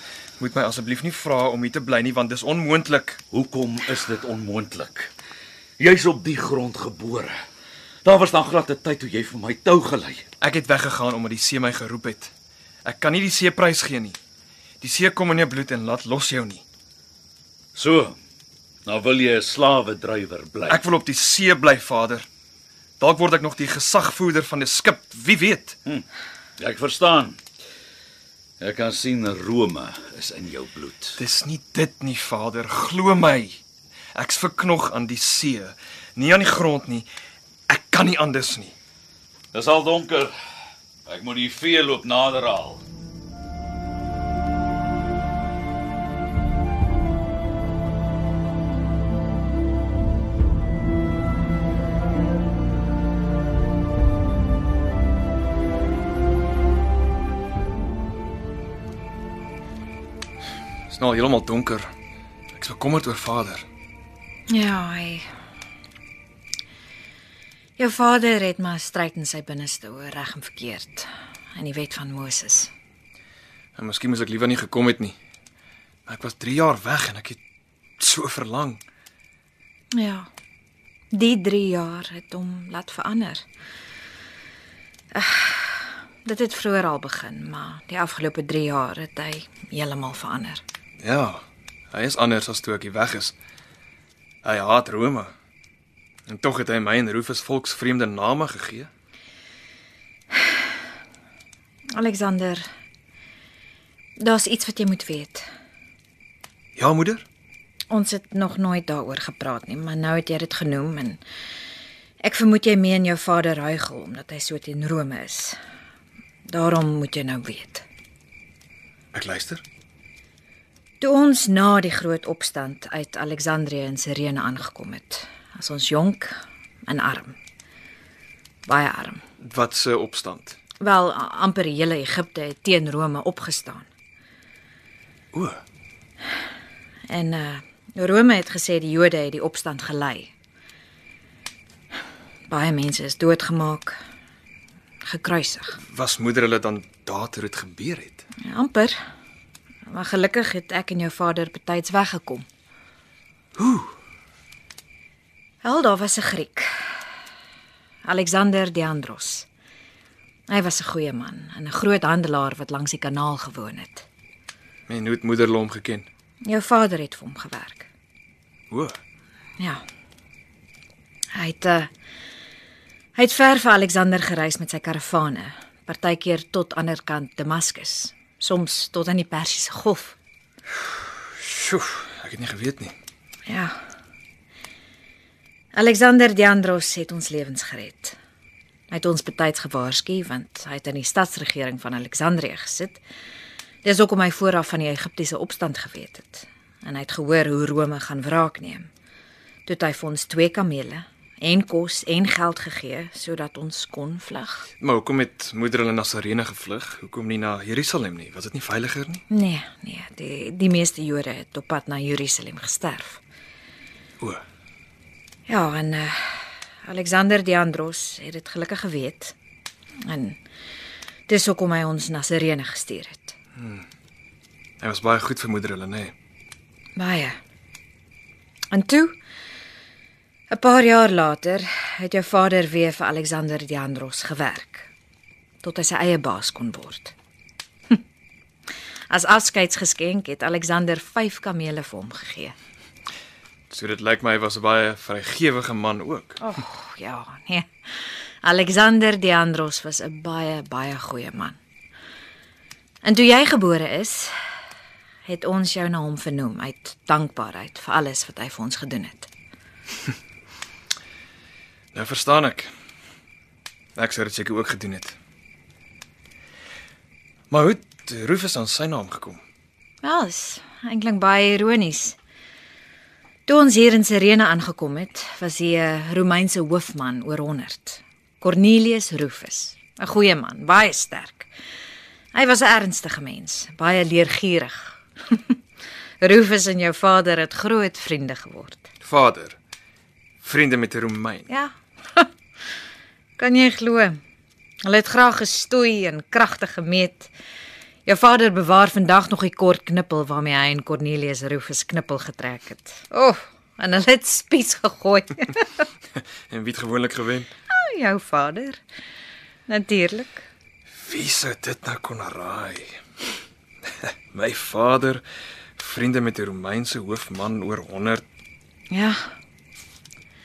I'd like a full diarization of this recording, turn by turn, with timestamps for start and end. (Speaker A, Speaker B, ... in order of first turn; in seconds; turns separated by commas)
Speaker A: 0.4-3.2, Speaker B: 3.3-5.1, Speaker B: 5.8-7.4, Speaker B: 8.1-10.2, Speaker A: 10.4-12.3, Speaker A: 12.8-14.2, Speaker A: 14.8-16.6, Speaker B: 17.8-18.2, Speaker B: 18.9-20.8, Speaker A: 20.7-22.3, Speaker A: 23.0-25.8, Speaker B: 26.6-27.4, Speaker B: 28.6-31.2, Speaker A: 31.2-33.6, Speaker A: 34.1-37.1, Speaker A: 37.7-38.8, Speaker B: 39.5-40.3, Speaker B: 41.1-42.8, Speaker A: 60.9-61.9, Speaker A: 62.6-63.7, Speaker C: 64.5-65.3, Speaker C: 67.8-72.7, Speaker A: 73.8-75.2, Speaker A: 76.1-77.4, Speaker A: 78.0-78.8, Speaker C: 79.9-80.3, Speaker C: 81.1-83.5, Speaker C: 85.1-90.6, Speaker A: 91.0-93.4, Speaker A: 94.4-95.3, Speaker A: 96.3-98.9, Speaker C: 102.0-102.6, Speaker C: 104.2-105.5, Speaker A: 106.8-107.2, Speaker C: 107.9-111.2, Speaker C: 112.2-115.6, Speaker C: 116.5-117.9, Speaker A: 119.1-119.6, Speaker C: 121.0-127.4, Speaker C: 128.7-129.2, Speaker A: 129.4-130.6, Speaker C: 130.8-133.9, Speaker A: 135.3-135.6, Speaker C: 137.1-140.3, Speaker C: 142.5-144.0, Speaker C: 145.0-145.8, Speaker A: 145.9-148.2, Speaker C: 148.4-149.0, Speaker C: 149.9-152.5, Speaker A: 153.6-153.9, Speaker C: 155.6-157.0, Speaker C: 158.1-159.5, Speaker C: 160.5-164.1, Speaker A: 164.9-166.1, Speaker C: 166.5-167.9, Speaker A: 168.7-169.0, Speaker C: 169.6-169.8, Speaker C: 171.4-171.9, Speaker C: 173.2-180.2, Speaker A: 181.4-182.9, Speaker C: 183.5-183.8, Speaker C: 185.7-188.2, Speaker C: 188.9-193.0, Speaker C: 193.8-198.9, Speaker C: 199.7-204.7, Speaker A: 204.8-209.2, Speaker C: 209.3-213.2, Speaker C: 215.5-219.3, Speaker C: 220.1-220.4, Speaker C: 221.3-223.4, Speaker A: 223.6-223.8, Speaker A: 224.8-226.1, Speaker C: 227.0-227.4, Speaker C: 228.7-229.2, Speaker C: 230.5-234.9, Speaker C: 235.6-237.2, Speaker C: 239.1-242.5, Speaker A: 243.7-246.4, Speaker C: 246.4-251.6, Speaker C: 253.0-254.3, Speaker C: 255.2-259.3, Speaker A: 261.9-262.7, Speaker A: 264.0-265.2, Speaker A: 267.5-269.4, Speaker C: 270.0-272.2, Speaker C: 273.5-281.5, Speaker C: 282.3-285.6, Speaker C: 286.2-288.9, Speaker A: 289.0-289.6, Speaker A: 290.4-291.5, Speaker C: 291.5-292.3, Speaker C: 293.4-294.2, Speaker C: 294.9-297.3, Speaker C: 298.1-305.9, Speaker A: 306.5-307.5, Speaker C: 307.7-308.8, Speaker C: 309.7-310.4, Speaker A: 311.0-313.0, Speaker A: 314.3-315.2, Speaker A: 315.8-318.2, Speaker C: 318.9-319.4